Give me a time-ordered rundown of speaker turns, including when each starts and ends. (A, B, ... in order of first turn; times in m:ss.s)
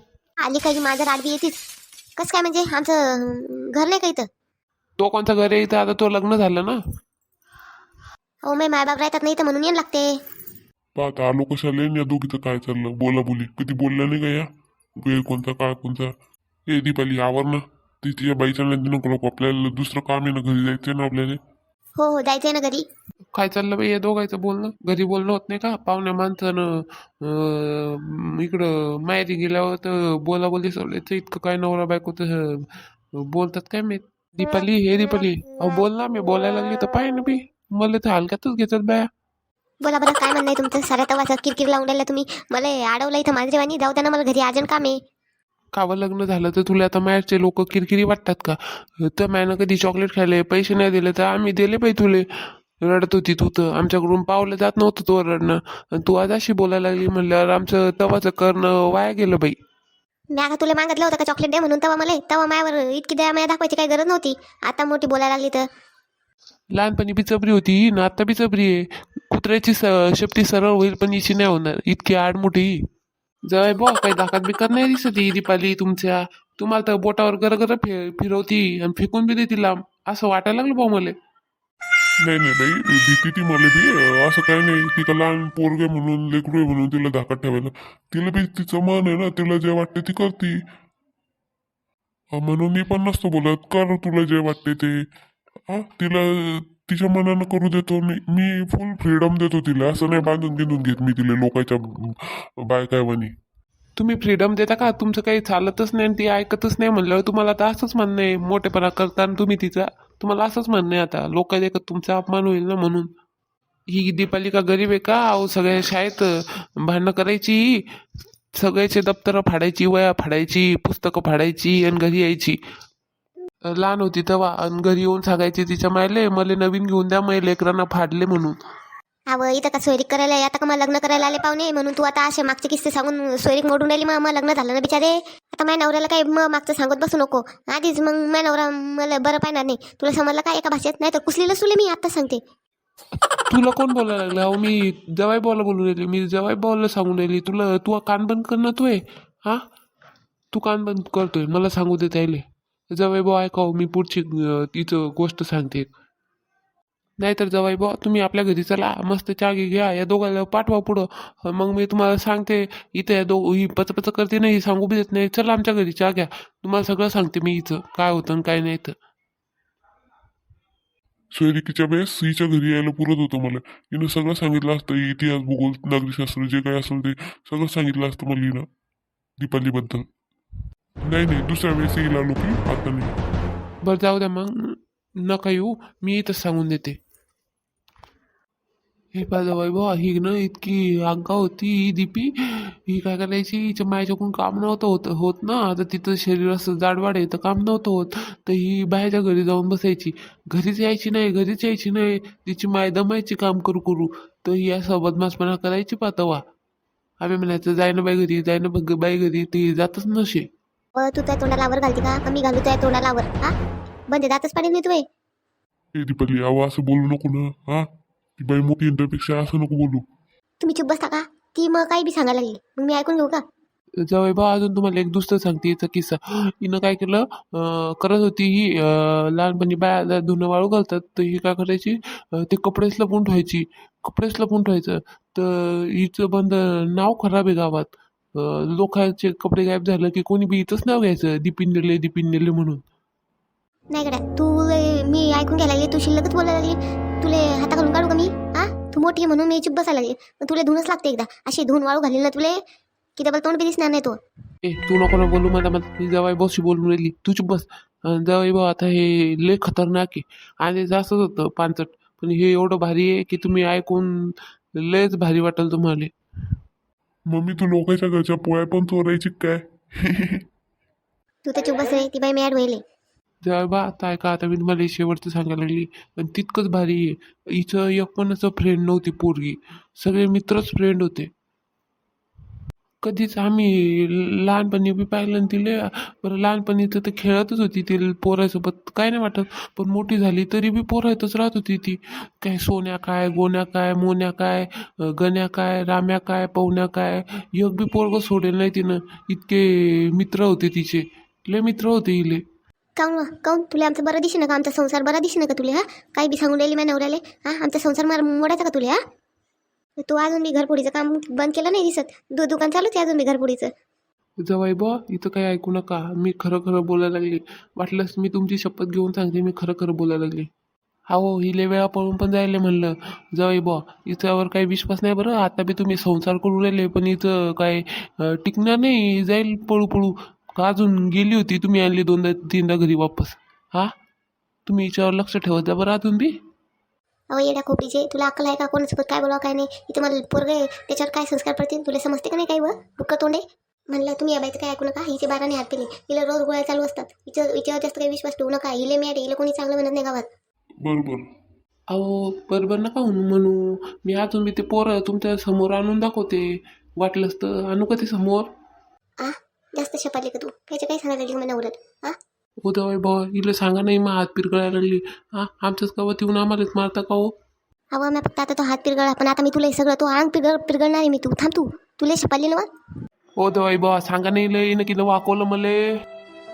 0:00.4-0:01.6 A
0:02.2-0:04.3 A
0:05.0-0:06.8 B
0:08.4-0:10.1 A
0:10.9-0:14.5 C
0:15.0-0:16.1 C
0:16.7-0:21.4 C
0:22.0-0:22.8 A
0:23.3-0:39.1 B
0:39.8-0:45.0 A
0:45.7-0:52.3 B
0:52.8-0:59.6 B
1:00.3-1:05.7 A
1:06.7-1:12.8 B
1:13.5-1:21.1 B
1:22.2-1:30.6 C
1:32.3-1:35.0 C
1:35.7-1:43.3 C
1:44.0-1:53.1 B
1:53.9-1:57.8 B
1:58.5-2:02.6 B
2:03.7-2:08.6 B
2:09.3-2:22.4 A
2:23.5-2:29.6 B
2:30.5-2:35.9 B
2:37.2-2:49.0 B
2:51.3-2:58.6 C
2:59.4-3:00.0 C
3:01.0-3:03.1 C
3:03.8-3:07.0 B
3:09.1-3:26.4 B
3:27.2-3:30.4 B
3:31.0-3:33.5 A
3:34.1-3:35.0 A
3:36.0-3:37.9 C
3:38.4-3:40.0 C
3:40.6-3:43.4 A
3:44.0-4:02.8 B
4:03.9-4:12.6 A
4:13.2-4:14.2 A
4:14.6-4:26.1 B
4:27.3-4:30.4 C
4:31.4-4:32.8 A
4:33.4-4:41.3 B
4:43.0-5:02.4 B
5:03.0-5:09.0 A
5:10.0-5:13.7 A
5:14.4-5:20.5 B
5:21.1-5:33.9 B
5:34.6-5:36.3 B
5:37.3-5:50.2 A
5:50.8-5:51.3 C
5:51.9-5:58.5 B
5:59.2-6:02.2 A
6:02.6-6:07.3 B
6:07.9-6:12.7 A
6:13.4-6:15.9 B